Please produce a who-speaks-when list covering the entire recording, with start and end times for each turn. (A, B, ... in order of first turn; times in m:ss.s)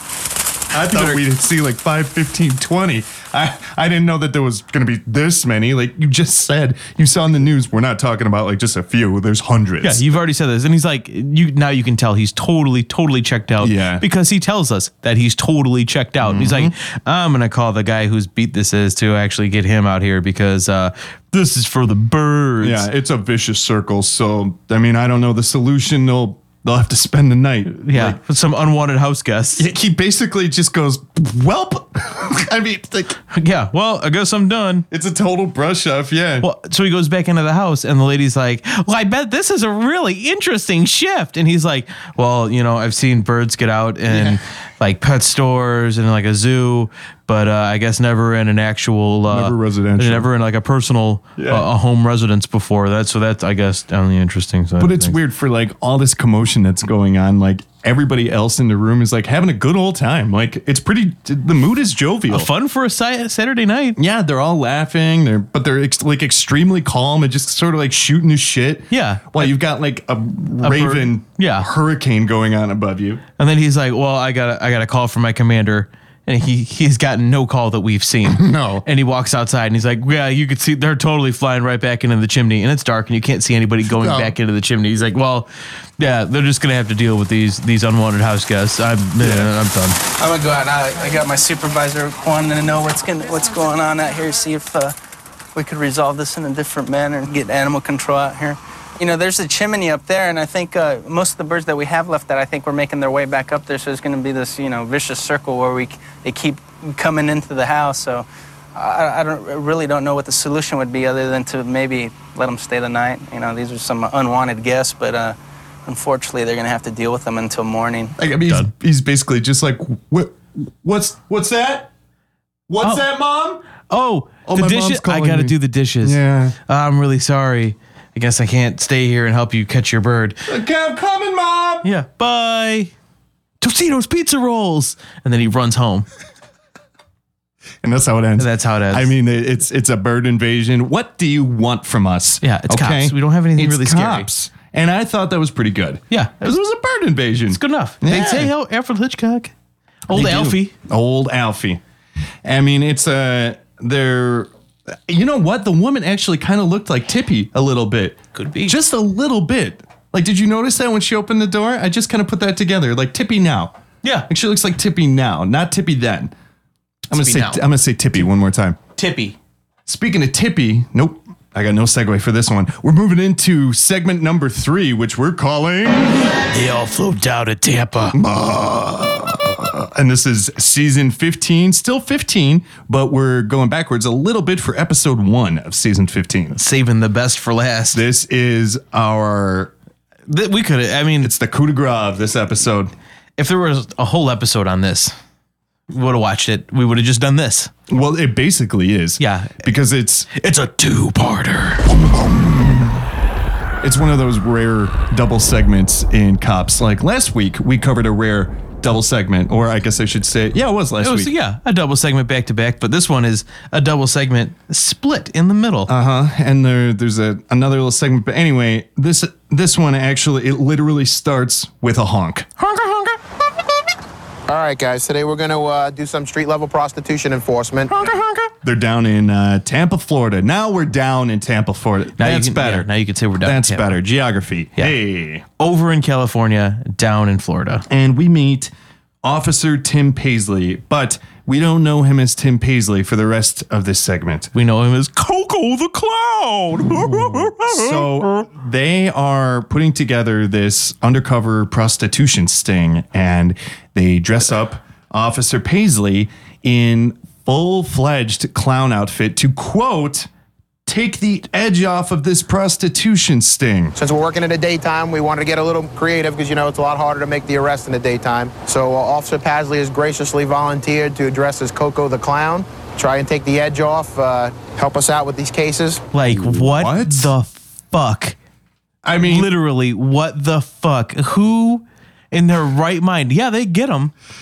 0:00.7-0:10.1 A
0:00.9-0:01.2 B
0:09.8-0:22.9 B
0:13.6-0:14.0 A
0:16.2-0:16.7 A
0:22.6-0:28.2 A
0:27.7-0:29.6 B
0:29.6-0:33.2 A
0:33.3-0:34.8 B
0:34.9-0:36.5 A
0:36.4-0:55.2 B
0:44.1-0:44.4 A
0:49.3-0:50.3 A
0:51.4-0:51.6 A
0:54.8-1:02.5 A
1:02.3-1:04.0 B
1:04.0-1:13.2 A
1:08.9-1:09.6 B
1:10.6-1:11.7 B
1:13.4-1:30.0 B
1:18.2-1:18.8 A
1:23.9-1:24.3 A
1:29.2-1:29.5 A
1:30.2-1:34.9 C
1:35.5-1:58.1 C
1:58.2-2:01.9 A
2:02.7-2:03.6 A
2:03.9-2:10.4 B
2:04.4-2:06.6 A
2:10.5-2:11.8 A
2:11.8-2:12.9 B
2:13.6-2:16.1 B
2:17.8-2:28.5 A
2:18.4-2:19.1 B
2:22.4-2:24.3 B
2:26.1-2:26.4 B
2:27.5-2:29.5 B
2:30.1-2:30.7 B
2:30.1-2:31.8 A
2:32.4-2:34.5 A
2:35.1-2:43.7 A
2:38.3-2:38.8 B
2:44.3-2:46.3 A
2:47.1-2:47.6 B
2:47.1-2:48.8 A
2:49.0-2:49.4 B
2:49.8-2:56.3 A
2:56.5-2:58.2 B
2:58.1-3:06.6 A
3:06.5-3:08.0 B
3:07.9-3:09.7 A
3:10.3-3:11.3 B
3:11.2-3:12.9 A
3:13.4-3:15.1 B
3:15.9-3:17.7 B
3:17.9-3:20.3 A
3:19.2-3:19.6 B
3:20.3-3:21.9 B
3:21.9-3:23.1 A
3:23.8-3:31.3 A
3:31.0-3:35.9 B
3:35.9-3:42.5 A
3:42.6-3:43.2 B
3:44.5-3:47.9 D
3:47.9-3:48.5 B
3:48.6-3:55.4 A
3:52.2-3:54.0 B
3:55.6-3:57.8 B
3:57.9-3:58.7 A
3:59.2-4:04.5 A
4:04.5-4:08.4 B
4:06.9-4:20.3 A
4:20.8-4:24.0 A
4:24.0-4:36.0 D
4:36.1-4:38.4 B
4:36.3-4:37.3 A
4:39.0-4:39.5 A
4:39.2-4:44.1 B